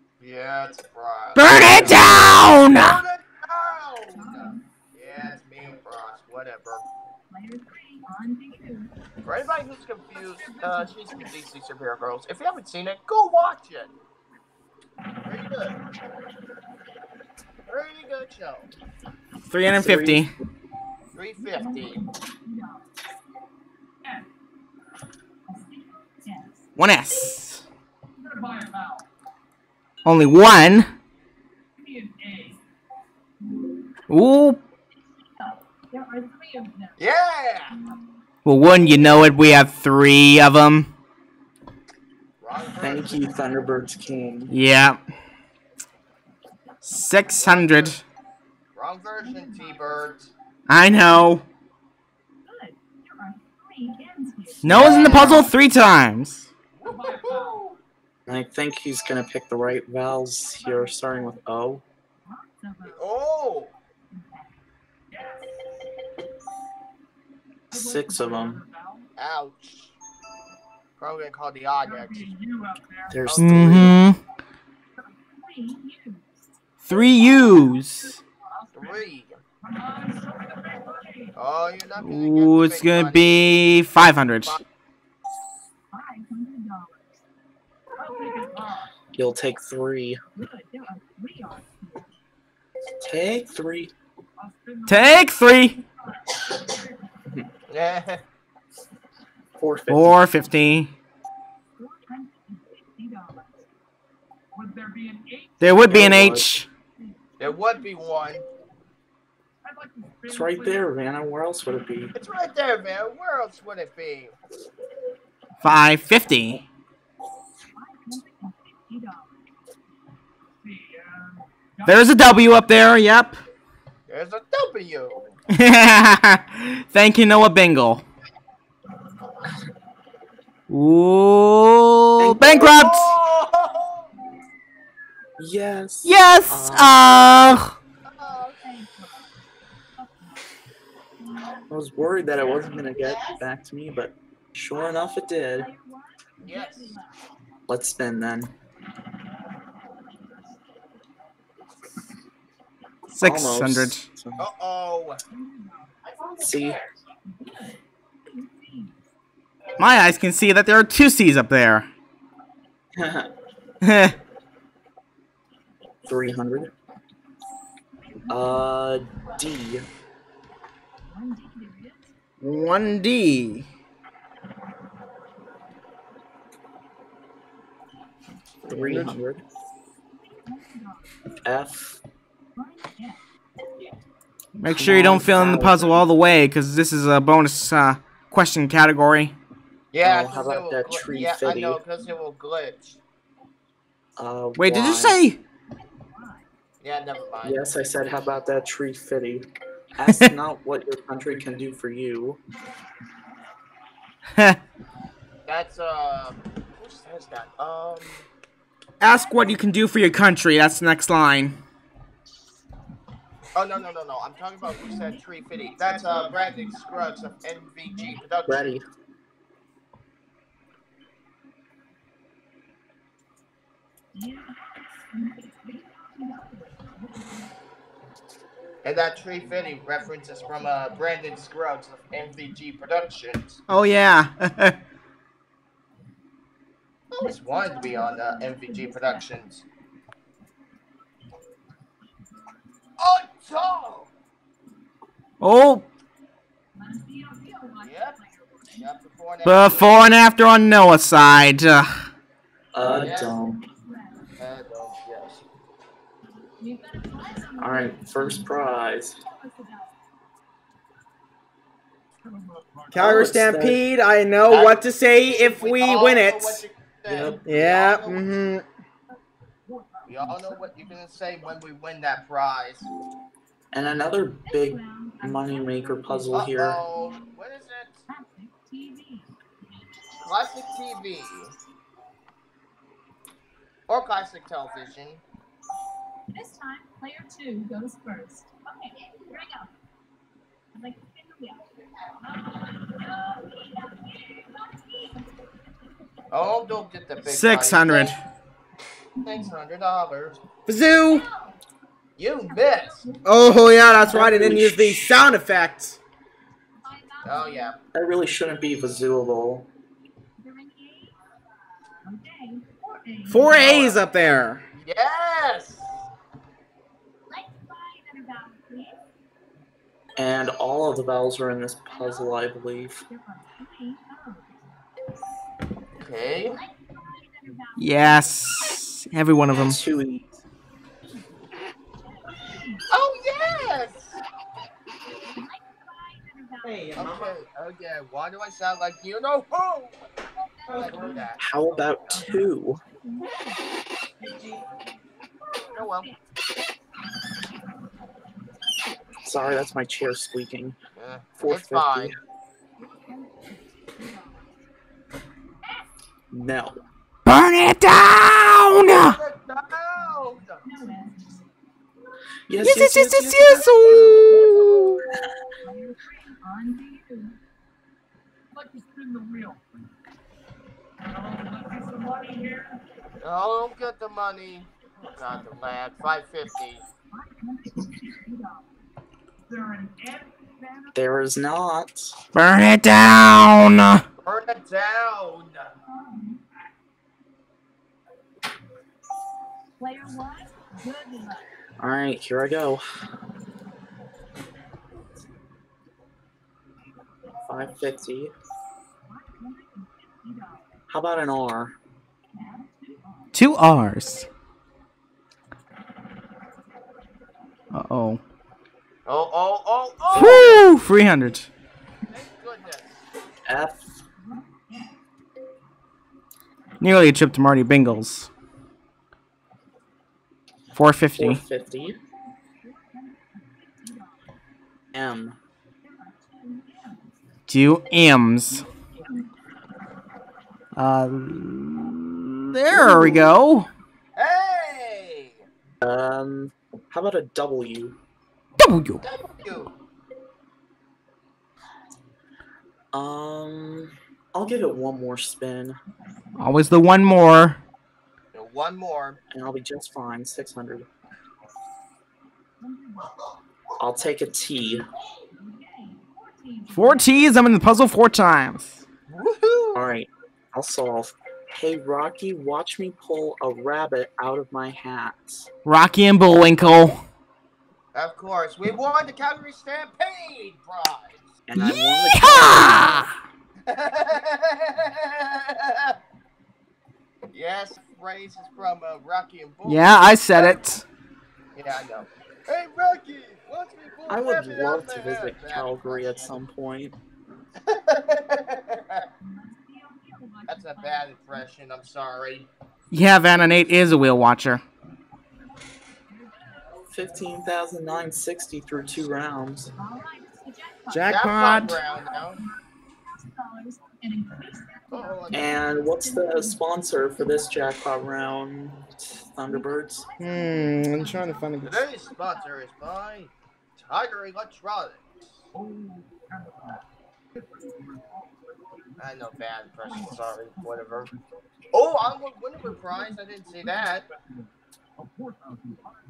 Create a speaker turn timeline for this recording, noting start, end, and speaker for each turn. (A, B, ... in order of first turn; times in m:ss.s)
0:00.2-0:06.8 A
0:01.4-0:03.0 B
0:04.1-0:04.6 C
0:07.3-0:08.9 C
0:09.2-0:13.9 A
0:10.5-0:11.0 C
0:15.2-0:15.8 A
0:17.7-0:18.7 A
0:19.5-0:20.3 B
0:19.7-0:20.3 D
0:21.1-0:22.0 A
0:21.5-0:22.8 C
0:25.5-0:26.6 C
0:26.8-0:27.6 B
0:28.3-0:29.0 C
0:30.0-0:30.9 B
0:31.8-0:32.6 C
0:34.1-0:34.6 B
0:35.4-0:37.0 C
0:37.0-0:37.8 A
0:38.4-0:40.9 B
0:38.7-0:39.3 A
0:42.4-0:43.5 A
0:42.8-0:44.5 D
0:44.5-0:45.0 B
0:46.8-0:48.0 B
0:47.3-0:48.0 A
0:48.7-0:50.3 A
0:50.7-0:51.4 B
0:52.4-0:55.2 C
0:54.6-0:56.5 B
0:54.7-0:55.5 D
0:54.8-0:55.4 A
0:56.7-0:57.8 A
0:56.9-0:57.6 C
0:58.3-1:01.8 D
1:00.7-1:01.1 C
1:02.3-1:03.0 C
1:02.8-1:03.7 A
1:04.2-1:04.5 C
1:05.1-1:05.4 C
1:07.7-1:08.6 D
1:09.2-1:09.9 A
1:11.0-1:12.4 A
1:13.1-1:14.0 D
1:13.2-1:14.0 A
1:13.4-1:14.2 B
1:15.2-1:16.3 C
1:16.8-1:18.2 B
1:18.7-1:19.4 A
1:19.7-1:21.3 C
1:21.3-1:23.5 A
1:22.0-1:24.6 B
1:25.9-1:27.1 C
1:28.0-1:28.9 C
1:29.1-1:30.2 D
1:30.3-1:32.1 C
1:33.0-1:33.9 D
1:34.8-1:35.8 B
1:36.2-1:36.8 C
1:37.7-1:38.2 A
1:39.6-1:40.2 D
1:39.9-1:40.9 B
1:41.8-1:43.5 C
1:44.6-1:45.5 C
1:45.6-1:46.7 B
1:45.9-1:46.5 D
1:47.0-1:47.5 C
1:47.4-1:48.4 A
1:49.7-1:50.2 C
1:50.3-1:52.1 D
1:52.1-1:54.3 A
1:55.6-1:56.6 B
1:57.7-1:59.3 C
2:01.8-2:03.4 B
2:04.1-2:05.4 A
2:05.5-2:08.0 B
2:10.7-2:13.1 B
2:12.2-2:12.8 D
2:12.6-2:14.1 A
2:15.4-2:17.1 D
2:16.0-2:17.7 B
2:18.1-2:18.6 A
2:18.5-2:19.3 C
2:20.0-2:20.4 C
2:21.7-2:25.7 D
2:25.6-2:27.2 C
2:26.4-2:26.9 A
2:27.7-2:28.5 D
2:33.1-2:34.5 D
2:33.2-2:34.0 B
2:34.4-2:35.2 A
2:35.3-2:35.9 C
2:36.4-2:36.8 D
2:37.3-2:39.0 C
2:39.8-2:41.9 B
2:42.9-2:43.3 D
2:43.8-2:44.1 B
2:46.1-2:46.7 D
2:48.0-2:48.7 C
2:48.3-2:49.9 D
2:51.1-2:52.1 C
2:52.4-2:53.7 B
2:58.6-2:59.4 D
2:58.6-2:59.2 B
3:00.2-3:01.2 C
3:01.4-3:02.0 D
3:02.6-3:03.2 C
3:04.6-3:09.3 B
3:04.7-3:06.0 D
3:09.9-3:13.0 A
3:10.0-3:11.8 D
3:14.2-3:15.2 D
3:14.6-3:15.4 B
3:16.1-3:16.4 C
3:16.8-3:18.2 A
3:17.4-3:22.4 D
3:25.4-3:28.3 A
3:29.0-3:31.6 B
3:33.5-3:38.8 A
3:38.5-3:38.8 D
3:44.1-3:47.5 C
3:48.8-3:53.6 A
3:53.7-3:54.8 B
3:57.1-3:59.6 A
3:57.3-3:58.9 C
4:03.0-4:04.1 A
4:05.4-4:05.8 B
4:06.8-4:08.8 C
4:07.8-4:08.2 A
4:08.7-4:10.0 A
4:09.4-4:12.0 B
4:12.7-4:13.6 D
4:12.8-4:13.4 A
4:13.8-4:14.2 C
4:14.4-4:15.4 A
4:16.6-4:19.9 C
4:17.6-4:19.2 D
4:22.9-4:26.6 B
4:22.9-4:23.8 D
4:24.5-4:28.4 A
4:27.0-4:27.4 D
4:27.4-4:28.6 B
4:30.1-4:32.8 A
4:33.7-4:36.8 D
4:34.4-4:36.4 C
4:36.3-4:38.0 A
4:38.1-4:39.3 C
4:40.2-4:41.5 A
4:43.9-4:45.2 A
4:46.3-4:49.7 C
4:50.7-4:51.6 C
4:52.2-4:55.3 C
4:56.3-4:58.2 A
4:57.2-4:58.2 B
4:59.2-5:00.4 A
5:00.7-5:01.2 B
5:01.1-5:01.6 C
5:02.2-5:03.0 A
5:02.7-5:03.2 C
5:03.2-5:06.0 B
5:04.0-5:05.2 D
5:06.8-5:07.7 C
5:07.2-5:07.8 A
5:07.9-5:09.7 D
5:10.4-5:11.2 C
5:12.0-5:13.7 C
5:13.3-5:14.6 B
5:13.5-5:14.0 A
5:14.8-5:16.0 A
5:17.3-5:19.0 C
5:20.2-5:23.0 D
5:23.1-5:24.6 C
5:26.0-5:26.6 A
5:26.6-5:28.4 C
5:27.8-5:29.8 B
5:29.5-5:30.3 D
5:32.2-5:32.8 C
5:32.9-5:34.2 A
5:35.3-5:36.9 C
5:37.0-5:40.0 A
5:40.7-5:42.2 A
5:41.4-5:42.8 D
5:43.0-5:43.6 C
5:45.6-5:46.2 C
5:45.7-5:46.1 A
5:49.2-5:50.8 D
5:51.0-5:52.1 A
5:51.4-5:52.1 D
5:52.8-5:54.4 C
5:56.3-5:56.8 D
5:57.2-5:59.2 B
5:58.9-6:00.7 A
6:00.6-6:01.4 C
6:02.5-6:03.7 D
6:02.6-6:05.1 B
6:05.6-6:07.4 C
6:08.5-6:09.6 C
6:11.2-6:12.8 C
6:13.2-6:16.8 A
6:17.1-6:18.6 C
6:19.5-6:20.2 C
6:20.9-6:22.2 D
6:22.3-6:24.0 B
6:24.2-6:25.7 A
6:25.9-6:26.4 C
6:29.8-6:31.5 C
6:31.8-6:32.8 D
6:37.5-6:38.3 D
6:39.0-6:40.6 C
6:40.9-6:41.8 D
6:42.3-6:43.3 C
6:43.3-6:44.3 B
6:47.7-6:48.2 B
6:49.0-6:50.6 A
6:50.1-6:51.5 B
6:52.1-6:53.0 A
6:53.4-6:53.9 D
6:54.3-6:54.9 C
6:56.8-6:58.3 B
7:00.7-7:01.4 B
7:01.2-7:02.0 D
7:02.6-7:04.2 C
7:04.9-7:05.4 D
7:05.8-7:07.1 C
7:07.5-7:08.7 B
7:09.0-7:09.2 C
7:10.8-7:13.7 B
7:12.7-7:13.3 D
7:14.2-7:15.4 A
7:15.8-7:18.0 D
7:18.6-7:19.0 B
7:19.0-7:19.7 A
7:22.9-7:25.8 D
7:26.4-7:27.6 B
7:28.3-7:29.2 A
7:29.3-7:30.9 D
7:32.6-7:33.3 C
7:33.8-7:34.8 D
7:35.3-7:37.3 C
7:36.7-7:38.8 B
7:39.1-7:39.9 A
7:39.7-7:45.5 D
7:45.6-7:47.0 B
7:47.9-7:51.3 A
7:51.5-7:52.8 D
7:51.6-7:53.1 B
7:53.7-7:55.9 A
7:57.3-8:00.6 A
7:59.6-8:00.8 B
8:01.5-8:06.4 A
8:04.1-8:07.0 D
8:07.7-8:09.0 A
8:09.2-8:11.1 C
8:10.5-8:12.5 A
8:12.9-8:14.6 B
8:16.1-8:16.9 C
8:16.9-8:19.7 D
8:19.8-8:21.2 C
8:20.9-8:21.8 B
8:21.0-8:22.4 A
8:21.8-8:22.5 C
8:23.1-8:26.5 C
8:24.9-8:25.6 A
8:25.3-8:30.1 D
8:29.5-8:31.6 C
8:30.2-8:31.8 B
8:31.6-8:35.3 A
8:39.0-8:41.1 A
8:41.7-8:44.1 A